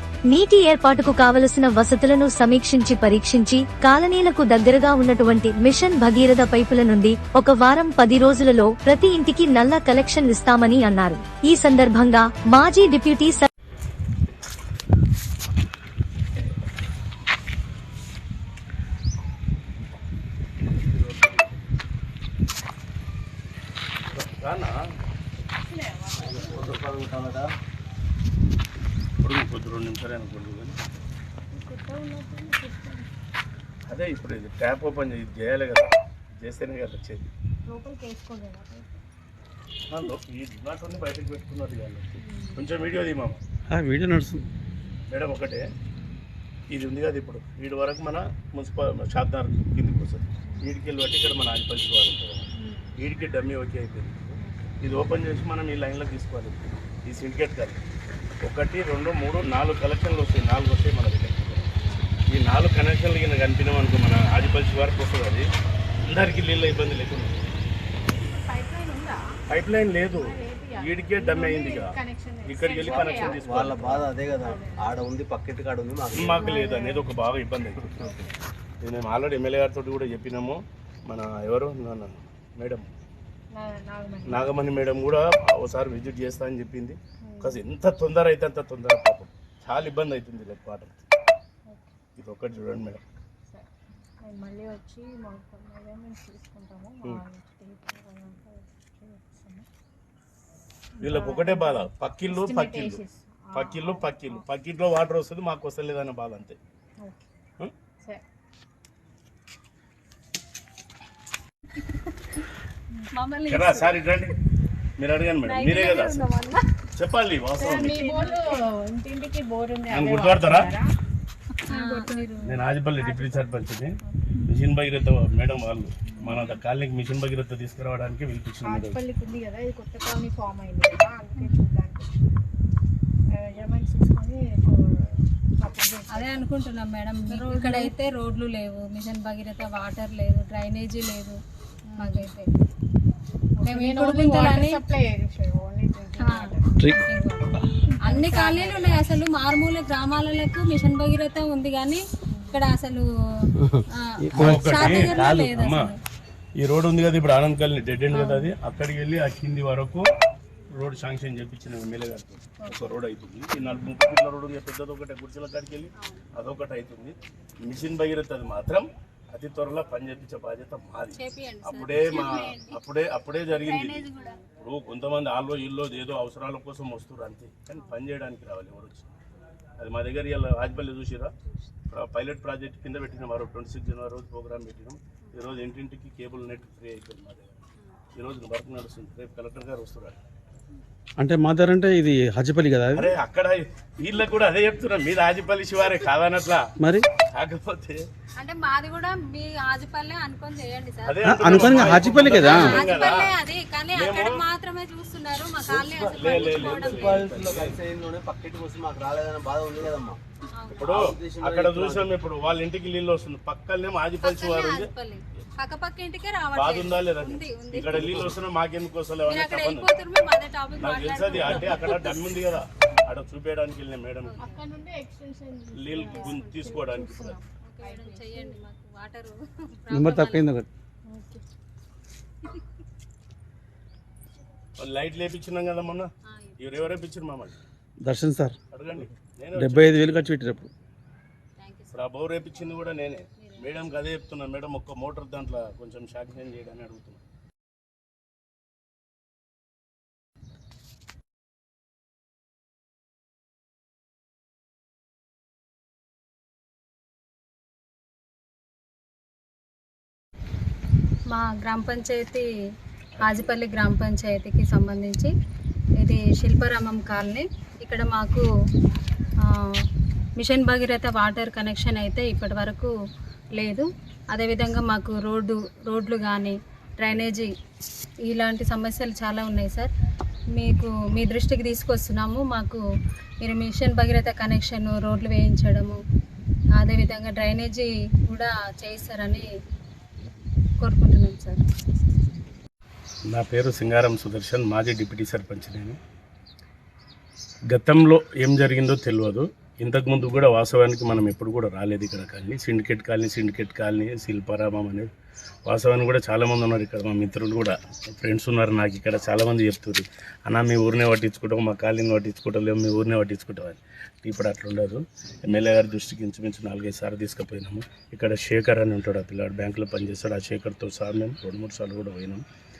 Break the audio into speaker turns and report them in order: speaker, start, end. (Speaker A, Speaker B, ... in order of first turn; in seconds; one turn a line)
Speaker A: 0.3-13.5
Speaker B: 20.8-21.6
Speaker B: 24.1-24.7
Speaker C: 25.6-26.8
Speaker D: 26.2-27.5
Speaker B: 29.2-30.8
Speaker C: 31.5-33.1
Speaker B: 33.9-37.2
Speaker C: 37.6-39.0
Speaker B: 39.9-43.4
Speaker C: 42.2-42.6
Speaker E: 43.7-44.5
Speaker B: 45.1-45.6
Speaker B: 46.7-57.8
Speaker C: 52.5-52.9
Speaker C: 54.4-54.6
Speaker B: 58.4-61.8
Speaker B: 62.3-65.4
Speaker B: 66.1-67.5
Speaker C: 68.0-69.2
Speaker B: 69.5-71.9
Speaker C: 70.0-75.0
Speaker B: 72.5-74.1
Speaker D: 72.9-76.5
Speaker B: 76.2-78.0
Speaker C: 76.4-77.0
Speaker B: 78.8-82.9
Speaker C: 83.5-84.5
Speaker B: 84.3-91.0
Speaker C: 87.2-87.6
Speaker C: 91.7-91.9
Speaker B: 92.2-93.0
Speaker C: 94.2-99.7
Speaker C: 101.0-104.4
Speaker B: 101.0-106.6
Speaker C: 107.0-107.3
Speaker F: 113.1-114.2
Speaker B: 113.5-114.3
Speaker B: 115.0-116.3
Speaker F: 115.5-116.5
Speaker B: 117.0-118.0
Speaker C: 117.6-120.9
Speaker F: 118.0-118.3
Speaker B: 119.9-120.7
Speaker F: 121.6-122.6
Speaker C: 121.7-123.5
Speaker B: 122.5-123.9
Speaker B: 124.5-129.0
Speaker C: 126.1-126.4
Speaker C: 128.6-132.3
Speaker C: 133.3-136.5
Speaker F: 136.1-141.4
Speaker C: 137.3-137.9
Speaker C: 141.9-142.3
Speaker F: 142.0-142.5
Speaker C: 143.6-147.0
Speaker F: 143.6-144.8
Speaker F: 146.2-153.5
Speaker C: 148.1-149.0
Speaker C: 152.3-152.6
Speaker F: 154.2-156.0
Speaker E: 154.2-155.1
Speaker B: 154.3-155.9
Speaker B: 156.6-160.1
Speaker F: 158.1-158.5
Speaker B: 160.7-174.1
Speaker F: 162.6-162.9
Speaker F: 166.0-166.3
Speaker F: 171.1-172.8
Speaker F: 173.6-174.4
Speaker B: 174.6-179.1
Speaker B: 179.8-181.3
Speaker B: 181.9-187.5
Speaker B: 188.1-190.2
Speaker E: 191.2-193.1
Speaker B: 192.9-196.7
Speaker E: 196.8-197.1
Speaker B: 197.3-198.0
Speaker F: 198.4-201.3
Speaker B: 201.1-203.3
Speaker E: 201.2-202.8
Speaker F: 201.8-207.3
Speaker D: 202.3-202.5
Speaker B: 203.9-204.4
Speaker D: 205.6-210.2
Speaker B: 206.2-207.8
Speaker F: 210.6-210.9
Speaker D: 210.8-212.1
Speaker B: 210.8-214.9
Speaker F: 214.2-218.2
Speaker B: 216.5-219.9
Speaker F: 219.3-222.2
Speaker B: 220.8-224.4
Speaker F: 224.2-224.7
Speaker C: 224.4-228.6
Speaker B: 225.8-227.4
Speaker F: 226.1-226.6
Speaker F: 227.6-230.5
Speaker E: 229.9-230.7
Speaker C: 231.1-231.4
Speaker B: 234.8-237.5
Speaker F: 236.2-236.9
Speaker E: 238.0-238.6
Speaker B: 238.7-240.3
Speaker E: 239.5-240.7
Speaker F: 241.6-242.0
Speaker B: 241.9-247.2
Speaker F: 243.4-243.7
Speaker F: 261.3-262.4
Speaker F: 263.2-265.3
Speaker F: 266.0-268.4
Speaker F: 270.4-272.9
Speaker F: 273.6-277.5
Speaker F: 278.3-279.9
Speaker F: 280.6-282.8
Speaker F: 283.4-286.0
Speaker F: 286.8-289.4
Speaker F: 290.8-291.6
Speaker B: 293.3-296.0
Speaker B: 297.7-305.1
Speaker B: 305.7-322.4